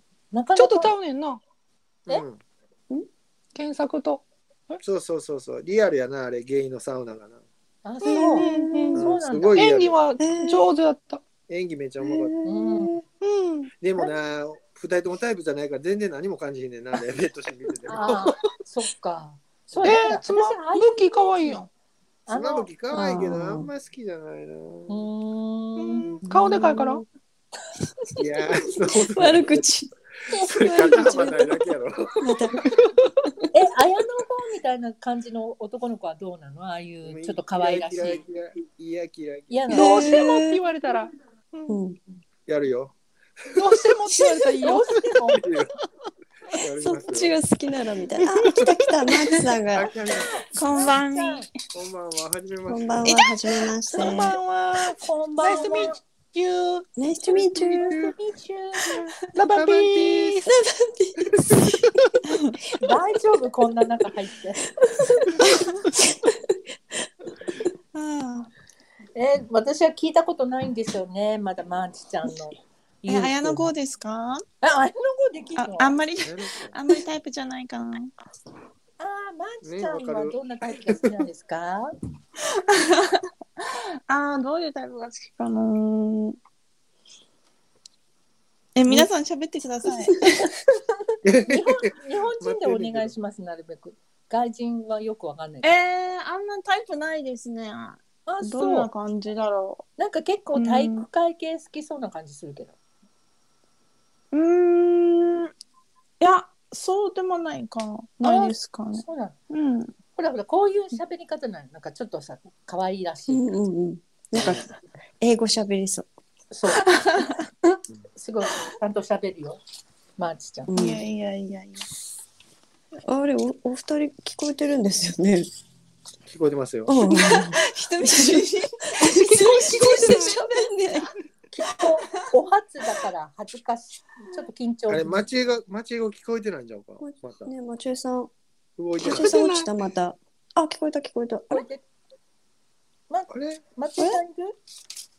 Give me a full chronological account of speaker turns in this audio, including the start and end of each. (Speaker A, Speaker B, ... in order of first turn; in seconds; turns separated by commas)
Speaker A: 0.3-0.9, Speaker B: 0.6-1.4, Speaker C: 2.1-2.4, Speaker B: 3.5-4.8, Speaker C: 4.8-7.4, Speaker A: 7.8-9.7, Speaker B: 8.0-9.0, Speaker D: 8.1-9.1, Speaker C: 8.9-10.0, Speaker B: 9.6-11.2, Speaker D: 10.2-10.7, Speaker C: 11.5-12.3, Speaker D: 12.0-13.0, Speaker A: 12.4-12.9, Speaker B: 13.2-13.7, Speaker C: 13.8-18.3, Speaker A: 17.9-21.7, Speaker B: 18.1-18.4, Speaker B: 19.8-21.7, Speaker A: 22.3-22.7, Speaker C: 22.3-25.0, Speaker D: 22.9-23.7, Speaker A: 24.9-26.1, Speaker B: 25.8-27.0, Speaker D: 26.2-27.0, Speaker C: 28.2-29.7, Speaker D: 29.0-32.6, Speaker C: 30.4-32.5, Speaker A: 33.5-38.2, Speaker C: 37.0-39.7, Speaker A: 39.5-40.1, Speaker D: 39.7-40.6, Speaker B: 39.7-41.8, Speaker D: 41.7-42.0, Speaker C: 42.5-42.9, Speaker B: 43.5-45.0, Speaker A: 44.6-45.4, Speaker C: 45.3-45.7, Speaker C: 46.6-47.4, Speaker D: 46.8-49.9, Speaker B: 48.3-48.8, Speaker C: 49.7-50.4, Speaker E: 50.5-51.5, Speaker A: 50.5-51.5, Speaker C: 51.7-53.2, Speaker D: 52.7-54.4, Speaker B: 53.9-56.9, Speaker A: 54.9-56.0, Speaker D: 57.0-58.0, Speaker A: 57.5-59.0, Speaker C: 57.6-58.1, Speaker C: 58.9-60.4, Speaker B: 59.3-60.5, Speaker D: 60.5-62.0, Speaker E: 62.3-62.5, Speaker A: 62.8-64.6, Speaker D: 64.8-66.6, Speaker E: 67.9-68.5, Speaker A: 69.2-73.7, Speaker E: 73.1-74.4, Speaker A: 74.6-76.0, Speaker E: 75.6-78.1, Speaker C: 76.2-76.8, Speaker A: 79.0-81.9, Speaker C: 79.6-81.1, Speaker E: 82.5-86.4, Speaker E: 88.7-90.5, Speaker D: 90.0-90.3, Speaker C: 91.2-93.1, Speaker A: 91.5-95.8, Speaker E: 95.6-99.8, Speaker A: 98.3-98.9, Speaker A: 100.0-102.7, Speaker E: 100.5-101.1, Speaker E: 104.3-105.5, Speaker E: 106.2-109.9, Speaker A: 108.2-109.3, Speaker A: 110.2-113.4, Speaker D: 113.3-116.1, Speaker C: 114.4-114.7, Speaker A: 116.5-119.6, Speaker E: 116.9-117.3, Speaker A: 120.2-120.7, Speaker D: 120.7-121.0, Speaker E: 120.7-121.8, Speaker D: 123.1-125.5, Speaker C: 126.2-127.0, Speaker D: 126.9-131.1, Speaker E: 127.0-128.7, Speaker B: 129.0-130.4, Speaker E: 129.7-130.1, Speaker A: 131.5-135.3, Speaker C: 134.9-137.5, Speaker D: 137.0-138.3, Speaker C: 138.8-139.4, Speaker B: 139.0-139.7, Speaker D: 139.0-141.7, Speaker A: 141.5-141.8, Speaker A: 143.1-144.6, Speaker C: 143.3-143.6